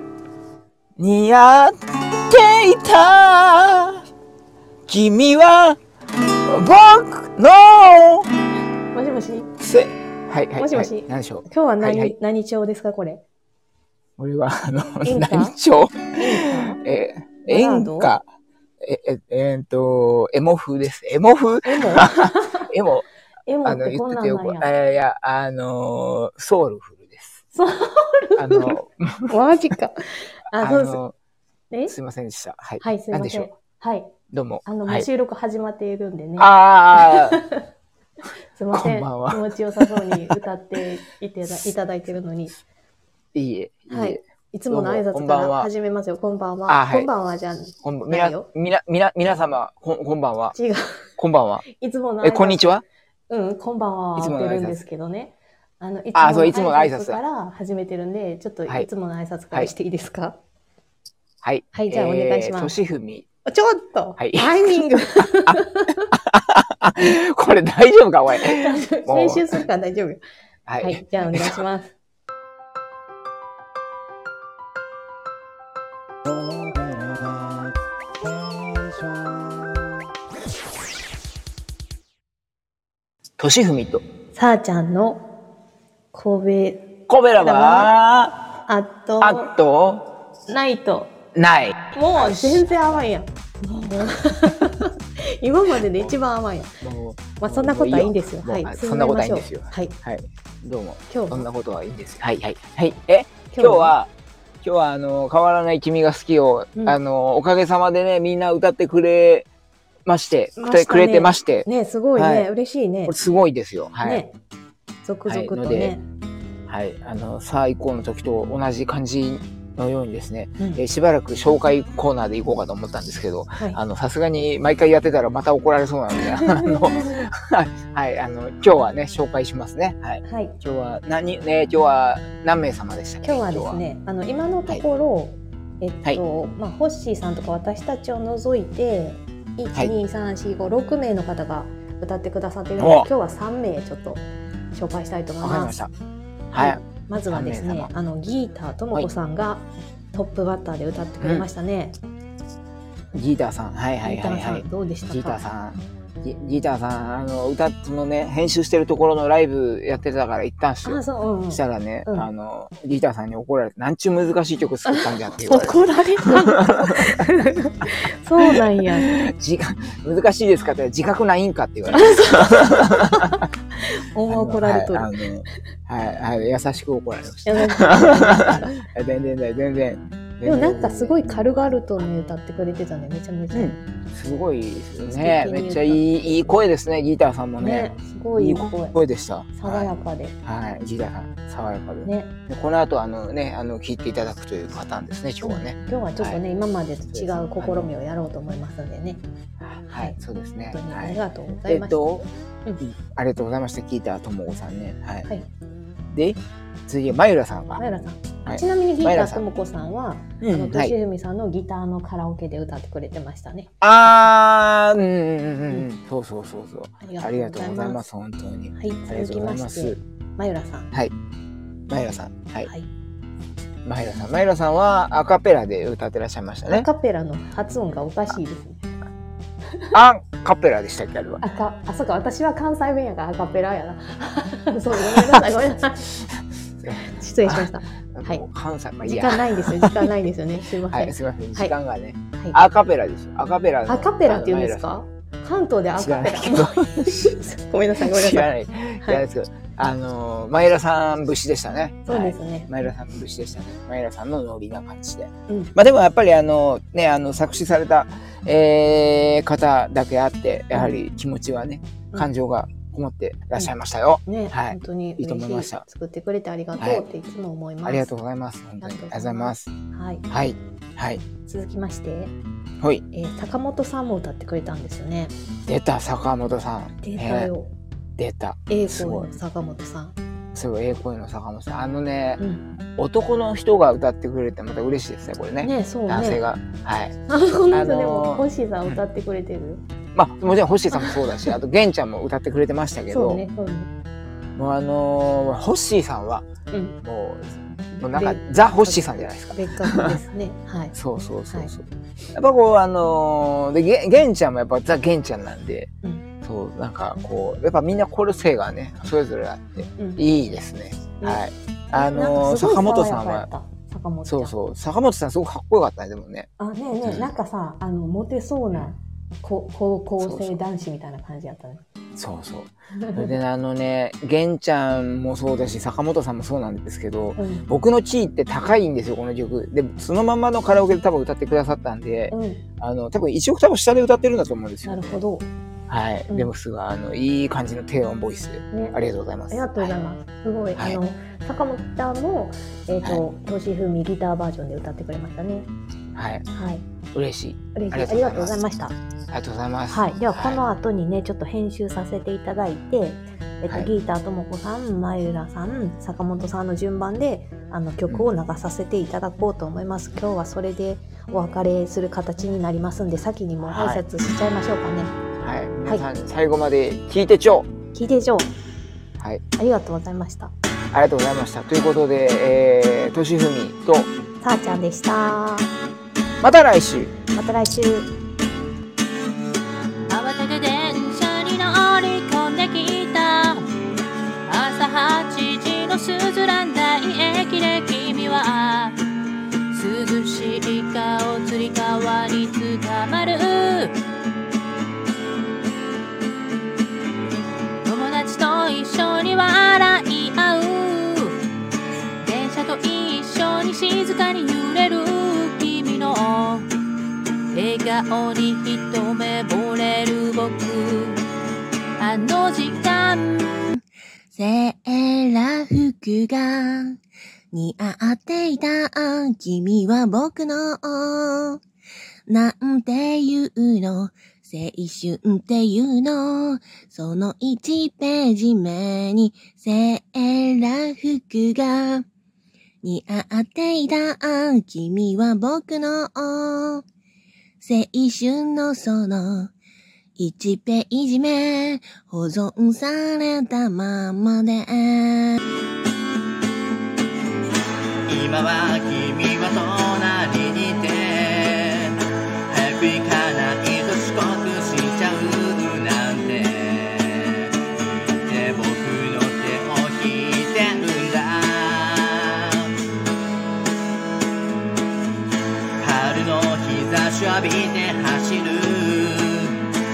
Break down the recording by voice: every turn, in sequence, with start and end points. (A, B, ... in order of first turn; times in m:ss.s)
0:01.0-0:04.0 A
0:04.9-0:05.8 A
0:06.5-0:08.3 A
0:08.9-0:09.5 B
0:09.6-0:12.1 A
0:10.6-0:13.2 B
0:14.2-0:18.2 A
0:15.0-0:15.5 B
0:16.1-0:16.8 B
0:17.5-0:18.1 B
0:18.8-0:23.1 A
0:21.6-0:22.7 B
0:23.5-0:24.7 B
0:23.6-0:27.4 A
0:27.5-0:31.0 B
0:28.4-0:29.3 A
0:30.6-0:31.1 A
0:31.9-0:33.5 A
0:32.8-0:34.1 B
0:34.3-0:35.1 A
0:34.6-0:37.6 B
0:36.4-0:37.4 A
0:38.5-0:42.6 B
0:38.7-0:40.3 A
0:43.3-0:45.7 A
0:43.9-0:48.5 B
0:46.7-0:47.1 A
0:47.8-0:50.6 A
0:50.5-0:51.0 B
0:51.2-0:51.6 A
0:51.7-1:00.4 B
0:52.2-0:52.8 A
0:54.2-0:54.9 A
0:56.1-0:57.2 A
1:01.4-1:03.2 A
1:01.7-1:02.7 B
1:03.4-1:06.0 B
1:04.2-1:04.8 A
1:06.2-1:09.6 A
1:08.3-1:10.2 B
1:10.7-1:11.6 A
1:10.8-1:11.9 B
1:23.4-1:24.0 A
1:24.3-1:25.2 B
1:26.1-1:27.9 B
1:27.1-1:28.4 A
1:28.7-1:29.5 B
1:29.2-1:30.1 A
1:30.5-1:31.1 B
1:31.3-1:33.0 A
1:31.9-1:36.7 B
1:36.8-1:44.1 A
1:37.4-1:40.0 B
1:41.1-1:41.5 B
1:43.5-1:43.9 B
1:44.6-1:49.5 A
1:50.0-1:52.5 A
1:50.6-1:53.1 B
1:53.0-1:54.2 A
1:54.0-1:54.3 B
1:55.0-1:56.0 B
1:55.2-1:55.9 A
1:56.7-2:13.8 A
2:06.4-2:07.0 B
2:10.2-2:10.6 B
2:13.2-2:25.7 B
2:22.8-2:23.1 A
2:25.4-2:25.9 A
2:26.5-2:27.9 A
2:26.5-2:32.0 B
2:31.2-2:31.5 A
2:33.1-2:47.0 A
2:34.0-2:35.4 B
2:40.8-2:42.3 B
2:44.8-2:49.1 B
2:49.0-2:52.7 A
2:51.9-2:55.1 B
2:54.3-3:01.7 A
2:57.4-2:58.8 B
3:00.4-3:03.8 B
3:03.5-3:09.9 A
3:05.1-3:06.2 B
3:07.6-3:09.0 B
3:09.5-3:10.3 B
3:10.4-3:16.4 A
3:12.0-3:12.3 B
3:15.4-3:19.2 B
3:17.1-3:17.9 A
3:19.6-3:22.2 A
3:19.9-3:20.2 B
3:20.7-3:22.8 B
3:22.8-3:25.3 A
3:26.1-3:27.8 A
3:27.8-3:33.7 B
3:28.4-3:29.4 A
3:30.4-3:31.0 A
3:33.8-3:40.0 A
3:37.0-3:38.0 B
3:38.8-3:40.9 B
3:41.9-3:42.7 A
3:43.8-3:46.9 A
3:46.7-3:48.8 B
3:49.9-3:51.4 A
3:51.4-3:56.1 B
3:55.1-3:55.4 A
3:56.8-4:00.0 A
3:57.0-3:58.4 B
3:59.0-4:01.8 B
4:00.9-4:04.9 A
4:03.8-4:08.5 B
4:06.0-4:07.3 A
4:08.0-4:25.8 A
4:12.1-4:12.7 B
4:15.5-4:15.7 B
4:20.7-4:21.0 B
4:24.3-4:28.1 B
4:26.8-4:27.0 A
4:27.8-4:29.7 A
4:28.8-4:30.2 B
4:30.3-4:31.2 A
4:31.4-4:32.3 B
4:33.1-4:35.3 B
4:35.7-4:37.5 A
4:37.0-4:37.7 B
4:38.2-4:39.3 A
4:38.7-4:40.1 B
4:40.5-4:42.4 A
4:42.4-4:42.6 B
4:43.0-4:47.2 A
4:45.6-4:46.4 B
4:47.3-4:49.8 B
4:47.7-4:49.0 A
4:50.1-4:53.4 A
4:50.9-4:51.2 B
4:53.1-4:53.9 B
4:54.6-4:56.5 A
4:56.7-4:57.0 B
4:57.0-5:00.2 A
4:58.1-5:00.9 B
5:00.9-5:05.9 A
5:06.4-5:13.5 A
5:11.9-5:14.5 B
5:14.2-5:16.5 A
5:16.6-5:21.8 B
5:17.0-5:17.3 A
5:20.2-5:20.6 A
5:22.2-5:35.2 A
5:23.0-5:23.3 B
5:27.4-5:27.6 B
5:32.3-5:32.6 B
5:34.8-5:35.5 B
5:35.9-5:40.0 A
5:38.7-5:39.0 B
5:39.5-5:45.7 B
5:46.1-5:46.4 A
5:46.5-5:46.8 B
5:47.1-5:48.6 A
5:47.7-5:49.0 B
5:49.3-5:50.6 A
5:49.9-6:05.1 B
6:03.6-6:04.0 A
6:05.4-6:07.7 A
6:07.9-6:08.5 B
6:09.6-6:10.5 B
6:10.9-6:14.1 A
6:14.4-6:15.7 B
6:16.4-6:17.1 A
6:17.3-6:18.1 B
6:20.1-6:23.6 C
6:24.5-6:28.9 C
6:29.7-6:33.9 C
6:37.8-6:41.3 C
6:42.2-6:46.7 C
6:47.5-6:51.2 C
6:52.0-6:53.5 C
6:53.7-6:57.0 D
6:57.5-7:01.6 D
7:02.3-7:12.1 D
7:12.8-7:16.8 D
7:17.6-7:19.5 D
7:20.2-7:25.4 D
7:28.1-7:31.9 E
7:32.5-7:42.7 E
7:45.8-7:49.5 E